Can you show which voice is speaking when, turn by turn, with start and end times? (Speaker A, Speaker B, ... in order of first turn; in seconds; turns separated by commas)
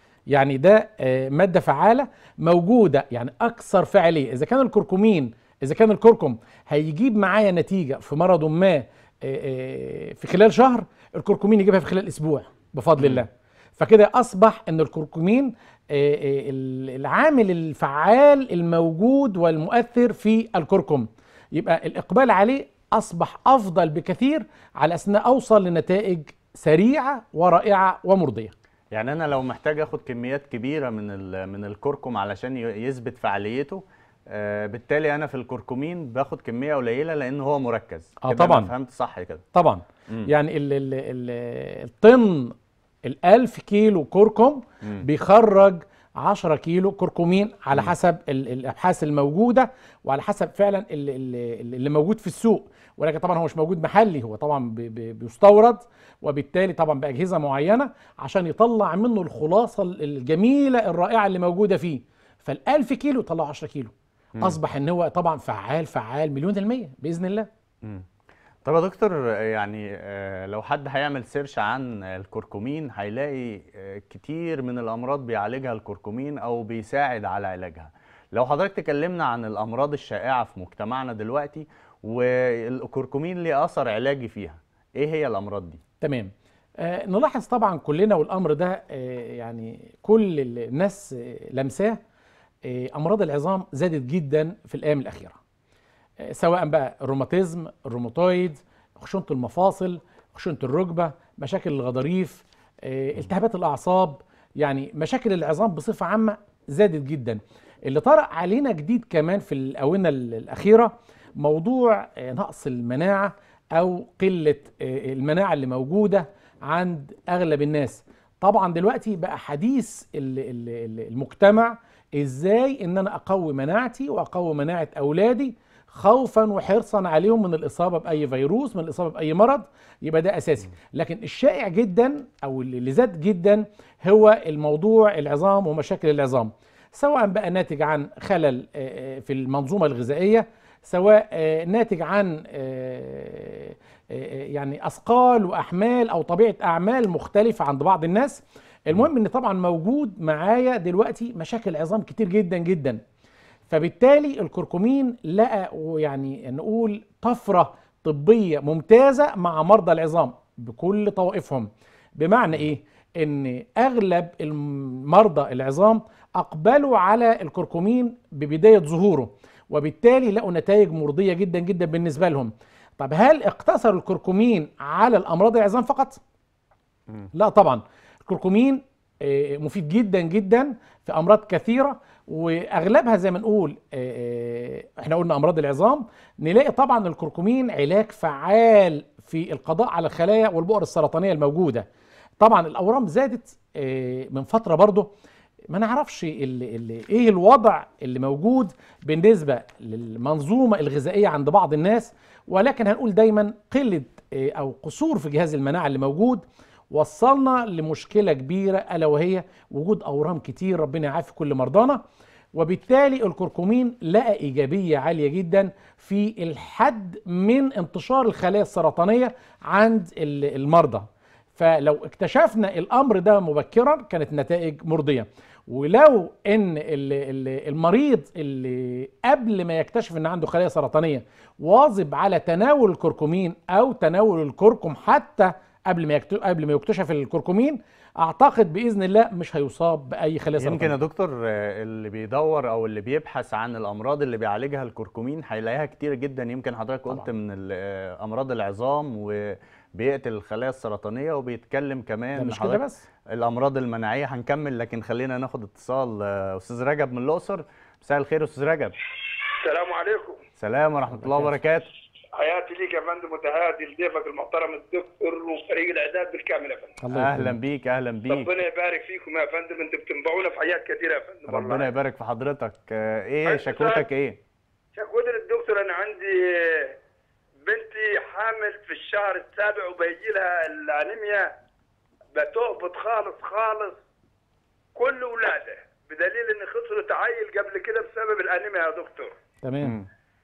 Speaker A: 0.3-28.5, Speaker B: 28.9-39.4, Speaker A: 38.2-38.7, Speaker A: 39.5-67.5, Speaker B: 68.7-85.8, Speaker A: 86.0-92.0, Speaker A: 92.6-95.4, Speaker A: 96.2-153.0, Speaker A: 153.7-176.2, Speaker A: 177.3-191.9, Speaker A: 192.4-195.1, Speaker A: 195.7-212.0, Speaker A: 212.5-241.0, Speaker B: 240.6-259.0, Speaker A: 252.4-253.0, Speaker C: 259.6-260.4, Speaker B: 260.6-261.9, Speaker A: 261.1-261.6, Speaker C: 262.3-267.0, Speaker A: 267.0-267.6, Speaker B: 267.1-268.5, Speaker C: 268.3-271.9, Speaker B: 271.5-274.4, Speaker C: 273.5-274.1, Speaker C: 274.9-277.0, Speaker C: 277.7-281.5, Speaker C: 282.4-284.0, Speaker C: 284.9-289.3, Speaker A: 289.6-290.0